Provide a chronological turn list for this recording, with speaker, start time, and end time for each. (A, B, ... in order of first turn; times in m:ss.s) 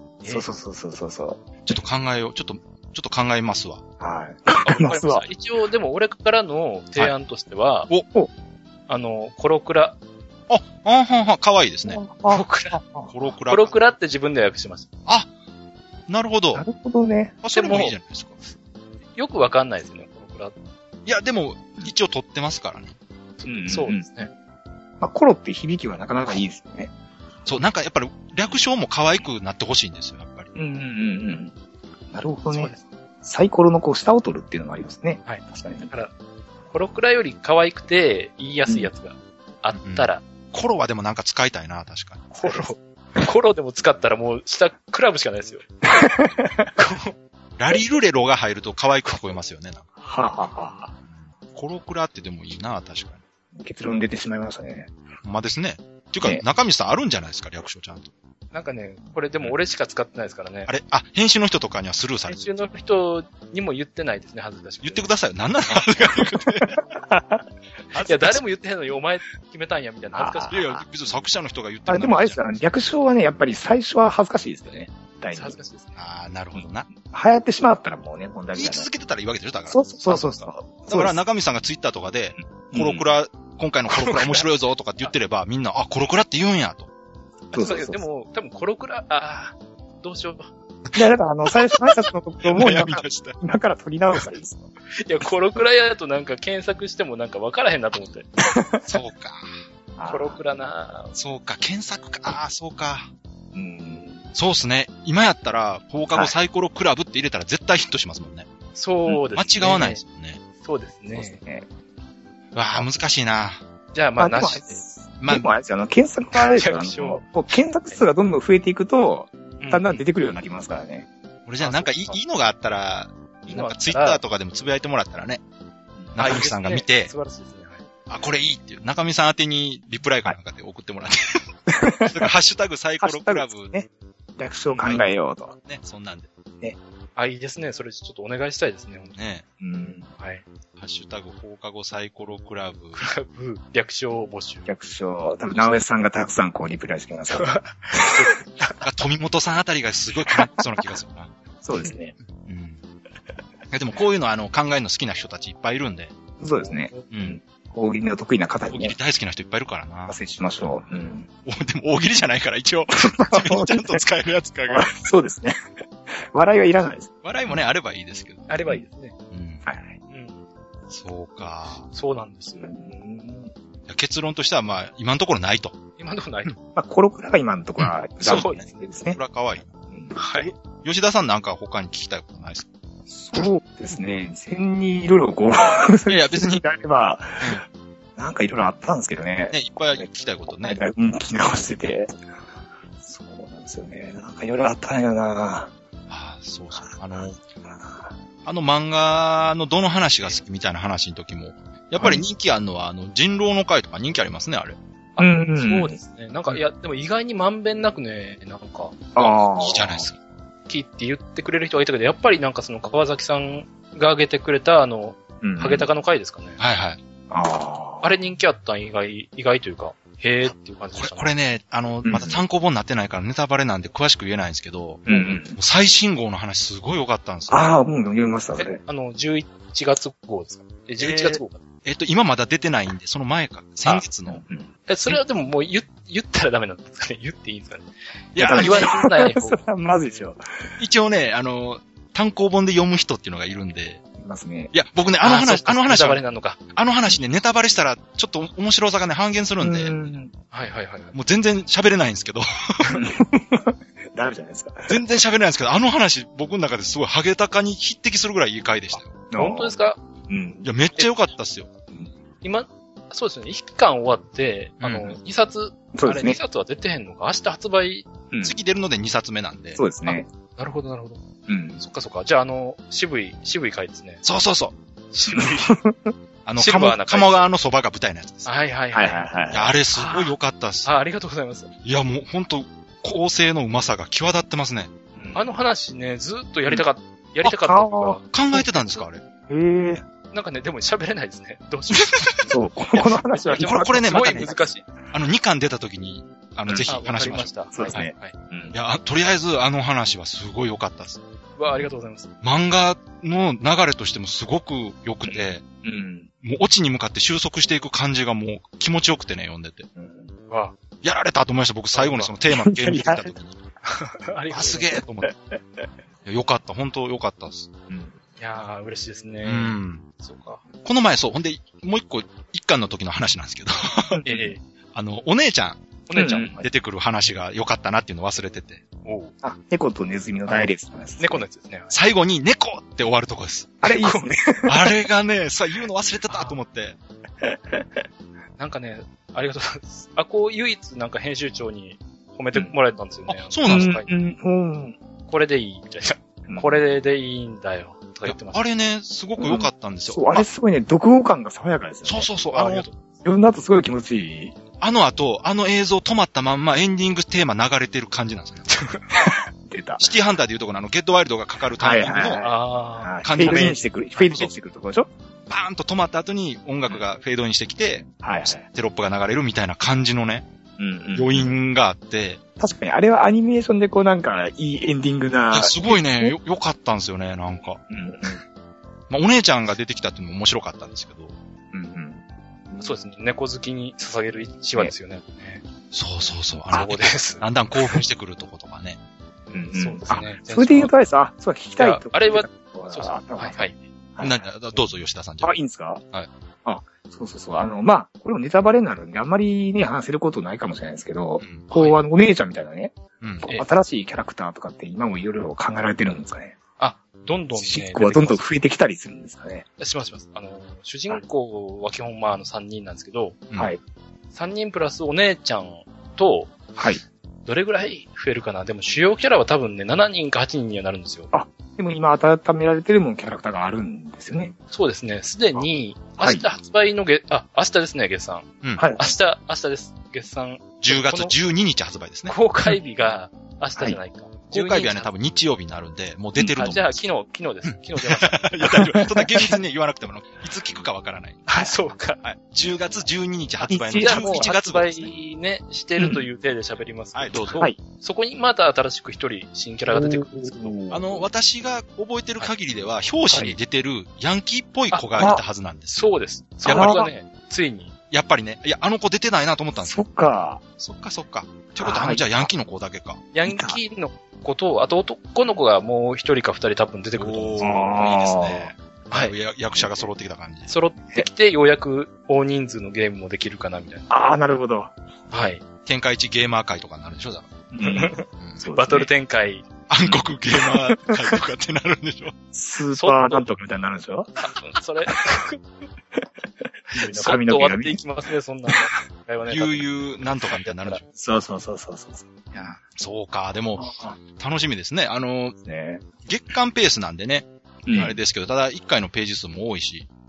0:00.2-0:01.5 A
0:01.6-0:03.8 B
0:04.0-0:05.3 A
0:04.6-0:07.9 C
0:08.9-0:10.0 C
0:10.5-0:12.0 B
0:11.8-0:13.1 A
0:12.3-0:12.8 C
0:13.1-0:13.7 B
0:13.5-0:14.9 C
0:16.1-0:16.6 B
0:16.5-0:17.4 A
0:17.4-0:18.3 B
0:17.5-0:17.9 C
0:19.2-0:20.6 C
0:21.0-0:23.0 B
0:23.4-0:24.3 C
0:23.4-0:24.1 A
0:25.0-0:26.9 A
0:27.4-0:30.5 B
0:30.5-0:31.5 A
0:32.1-0:32.7 A
0:32.5-0:32.8 C
0:33.2-0:35.9 A
0:35.2-0:36.1 C
0:36.7-0:40.2 C
0:39.8-0:42.4 B
0:42.4-0:45.6 C
0:45.8-0:46.7 A
0:46.8-0:47.1 C
0:47.6-0:49.9 B
0:50.0-0:50.9 A
0:51.0-0:53.2 B
0:53.5-0:54.9 A
0:55.2-0:58.1 B
0:58.5-1:00.7 C
1:00.7-1:02.4 B
1:02.3-1:05.1 C
1:04.8-1:06.8 B
1:06.9-1:07.4 A
1:07.9-1:08.4 B
1:08.0-1:10.6 C
1:10.1-1:10.8 A
1:10.5-1:12.4 B
1:11.9-1:15.6 A
1:15.3-1:16.0 C
1:16.0-1:16.9 B
1:16.9-1:18.9 A
1:18.5-1:26.9 B
1:19.7-1:21.2 A
1:22.7-1:23.0 A
1:24.0-1:24.4 C
1:27.5-1:28.0 A
1:27.5-1:30.5 C
1:30.9-1:34.6 A
1:31.5-1:33.4 B
1:35.0-1:38.3 C
1:38.4-1:38.9 A
1:38.8-1:39.5 B
1:40.0-1:40.4 A
1:40.0-1:41.1 C
1:41.1-1:43.1 B
1:43.5-1:44.2 A
1:44.3-1:48.5 B
1:48.7-1:50.0 C
1:49.3-1:50.4 B
1:50.6-1:51.4 C
1:51.1-1:51.7 A
1:52.5-1:53.6 B
1:53.9-1:54.8 C
1:54.2-2:01.1 A
1:55.2-1:55.5 B
1:56.3-1:57.2 C
1:59.6-2:00.0 C
2:01.4-2:05.4 B
2:01.6-2:02.2 C
2:03.5-2:04.2 C
2:06.0-2:06.4 A
2:06.1-2:07.1 B
2:06.2-2:07.8 C
2:08.1-2:11.5 B
2:11.7-2:12.3 A
2:12.0-2:13.7 B
2:13.0-2:15.5 A
2:15.6-2:16.3 B
2:17.2-2:19.2 C
2:19.2-2:19.4 B
2:19.6-2:20.1 A
2:20.2-2:20.4 C
2:20.8-2:23.0 B
2:22.9-2:24.7 C
2:24.7-2:27.6 A
2:27.3-2:28.8 C
2:28.8-2:31.3 B
2:31.6-2:32.1 A
2:32.3-2:32.8 B
2:33.7-2:36.1 B
2:36.4-2:39.0 A
2:36.6-2:37.1 C
2:37.1-2:37.4 B
2:38.7-2:40.2 B
2:40.1-2:41.3 A
2:41.4-2:44.9 B
2:43.0-2:44.0 A
2:44.7-2:45.6 A
2:46.1-2:47.1 A
2:47.2-2:48.5 B
2:48.5-2:49.1 C
2:49.3-2:49.6 B
2:49.6-2:50.0 A
2:50.1-2:50.4 C
2:50.9-2:51.9 B
2:51.9-2:52.7 C
2:52.6-2:53.5 A
2:53.9-2:55.7 B
2:56.0-2:56.5 C
2:56.7-2:59.2 A
2:57.8-2:59.7 B
2:58.2-2:58.9 C
3:00.2-3:00.5 C
3:00.4-3:02.7 B
3:03.1-3:07.6 A
3:06.1-3:06.6 B
3:08.2-3:10.0 A
3:09.5-3:10.8 B
3:10.6-3:12.1 A
3:13.0-3:15.7 A
3:16.1-3:17.4 B
3:17.2-3:18.1 A
3:18.4-3:24.8 B
3:22.0-3:22.2 A
3:25.2-3:29.2 C
3:25.2-3:26.0 A
3:29.2-3:30.0 A
3:29.2-3:30.2 B
3:30.7-3:36.6 C
3:35.4-3:35.9 A
3:36.6-3:37.0 B
3:37.3-3:38.1 A
3:38.0-3:41.3 C
3:41.0-3:47.7 B
3:42.0-3:42.4 A
3:45.0-3:45.6 A
3:45.1-3:45.4 C
3:47.5-3:48.8 A
3:48.8-3:51.6 C
3:51.0-3:54.4 B
3:53.8-3:54.7 A
3:54.9-3:57.9 C
3:58.3-3:58.9 B
3:58.4-4:00.4 A
3:58.5-3:59.6 C
4:00.8-4:04.0 B
4:04.2-4:04.7 A
4:04.7-4:06.2 B
4:05.2-4:06.6 C
4:06.7-4:10.0 B
4:09.6-4:10.3 A
4:10.5-4:11.1 C
4:11.1-4:13.0 B
4:12.9-4:15.0 A
4:14.9-4:19.2 B
4:19.1-4:19.8 A
4:19.3-4:20.0 C
4:20.3-4:20.6 A
4:20.6-4:21.7 B
4:22.4-4:28.1 C
4:24.8-4:25.2 B
4:25.9-4:26.4 A
4:28.4-4:29.8 B
4:29.8-4:30.3 A
4:30.0-4:31.2 C
4:31.5-4:31.8 A
4:31.8-4:34.2 C
4:34.2-4:34.7 B
4:35.1-4:35.8 C
4:35.3-4:36.1 A
4:36.4-4:38.5 B
4:36.6-4:37.4 C
4:38.4-4:39.3 C
4:38.9-4:39.7 A
4:39.5-4:40.9 B
4:39.9-4:40.3 C
4:40.8-4:41.7 C
4:41.8-4:44.9 B
4:45.2-4:45.5 A
4:45.3-4:48.2 C
4:47.6-4:48.6 A
4:48.3-4:49.2 B
4:49.5-4:50.0 A
4:50.3-4:54.8 C
4:51.9-4:52.4 B
4:52.5-4:54.7 A
4:53.6-4:54.5 B
4:55.1-4:58.1 B
4:56.8-4:58.4 C
4:57.7-4:58.8 A
4:58.7-5:01.2 B
5:01.6-5:02.3 C
5:02.4-5:05.6 B
5:05.2-5:06.3 A
5:06.4-5:09.9 B
5:10.0-5:10.3 A
5:10.5-5:10.8 C
5:11.0-5:13.6 B
5:11.9-5:12.3 C
5:12.5-5:13.3 A
5:13.8-5:15.0 C
5:14.5-5:15.3 B
5:16.2-5:17.7 B
5:17.9-5:18.1 A
5:18.4-5:20.6 C
5:19.4-5:20.1 B
5:20.8-5:24.2 B
5:24.1-5:24.5 A
5:24.2-5:24.6 C
5:24.9-5:25.8 B
5:26.1-5:26.6 C
5:26.1-5:26.6 A
5:26.5-5:28.8 B
5:29.0-5:29.3 C
5:29.4-5:31.4 A
5:31.2-5:31.9 C
5:31.9-5:33.8 B
5:33.8-5:34.9 A
5:33.9-5:34.3 C
5:34.7-5:37.0 B
5:36.3-5:36.6 C
5:37.4-5:37.9 A
5:38.6-5:44.2 C
5:43.3-5:43.9 B
5:43.7-5:45.0 A
5:45.3-5:48.6 C
5:46.5-5:46.8 A
5:48.2-5:50.4 B
5:49.4-5:52.3 A
5:52.0-5:52.8 B
5:52.5-5:53.0 C
5:53.2-5:54.5 A
5:54.8-5:58.8 B
5:58.7-5:59.0 C
5:59.2-6:00.1 A
6:00.0-6:02.4 B
6:01.8-6:05.1 A
6:02.4-6:03.8 C
6:03.2-6:04.5 B
6:05.5-6:10.4 B
6:08.1-6:08.6 A
6:10.8-6:11.5 A
6:11.1-6:12.4 B
6:12.6-6:16.3 A
6:15.5-6:17.8 B
6:17.9-6:18.4 A
6:19.1-6:21.3 B
6:21.7-6:22.9 A
6:22.8-6:25.6 C
6:25.9-6:29.0 B
6:26.7-6:27.9 C
6:29.5-6:33.6 A
6:29.7-6:30.9 C
6:31.8-6:33.8 C
6:34.2-6:34.4 A
6:34.2-6:35.6 B
6:35.4-6:36.0 A
6:36.6-6:46.5 A
6:41.4-6:41.9 B
6:43.2-6:43.5 B
6:46.8-6:48.4 C
6:47.5-6:49.6 A
6:49.8-6:53.4 C
6:53.5-6:53.7 B
6:54.3-6:56.7 C
6:57.4-7:01.3 C
7:01.3-7:04.5 A
7:04.7-7:11.3 C
7:06.2-7:06.4 A
7:08.6-7:08.9 B
7:08.8-7:09.1 A
7:10.8-7:12.4 B
7:12.3-7:15.1 C
7:14.5-7:17.0 B
7:16.4-7:16.7 A
7:16.6-7:18.4 C
7:17.6-7:21.5 B
7:18.6-7:19.6 A
7:21.5-7:22.2 C
7:22.2-7:25.1 B
7:23.6-7:24.5 A
7:23.9-7:30.8 C
7:26.0-7:26.2 A
7:27.1-7:27.7 B
7:29.9-7:31.3 A
7:30.9-7:36.1 B
7:35.2-7:35.4 A
7:35.9-7:37.9 C
7:36.6-7:37.0 B
7:36.6-7:37.1 A
7:38.1-7:40.0 B
7:39.8-7:40.6 A
7:40.8-7:43.2 B
7:41.8-7:42.5 A
7:43.3-7:47.8 C
7:43.4-7:43.8 A
7:47.1-7:50.7 B
7:47.6-7:48.7 A
7:49.8-7:50.1 A
7:50.7-7:54.1 C
7:54.1-7:54.9 A
7:55.3-7:55.6 C
7:55.8-7:57.5 B
7:57.7-7:59.1 A
7:57.8-7:59.6 C
7:59.9-8:02.3 B
8:00.0-8:01.4 A
8:02.5-8:04.3 A
8:02.9-8:03.5 C
8:04.4-8:05.6 C
8:06.9-8:11.0 C
8:07.0-8:08.0 A
8:09.5-8:11.0 B
8:11.2-8:12.7 A
8:12.9-8:15.6 B
8:13.8-8:14.2 A
8:15.6-8:16.1 A
8:16.2-8:20.1 B
8:17.8-8:18.2 A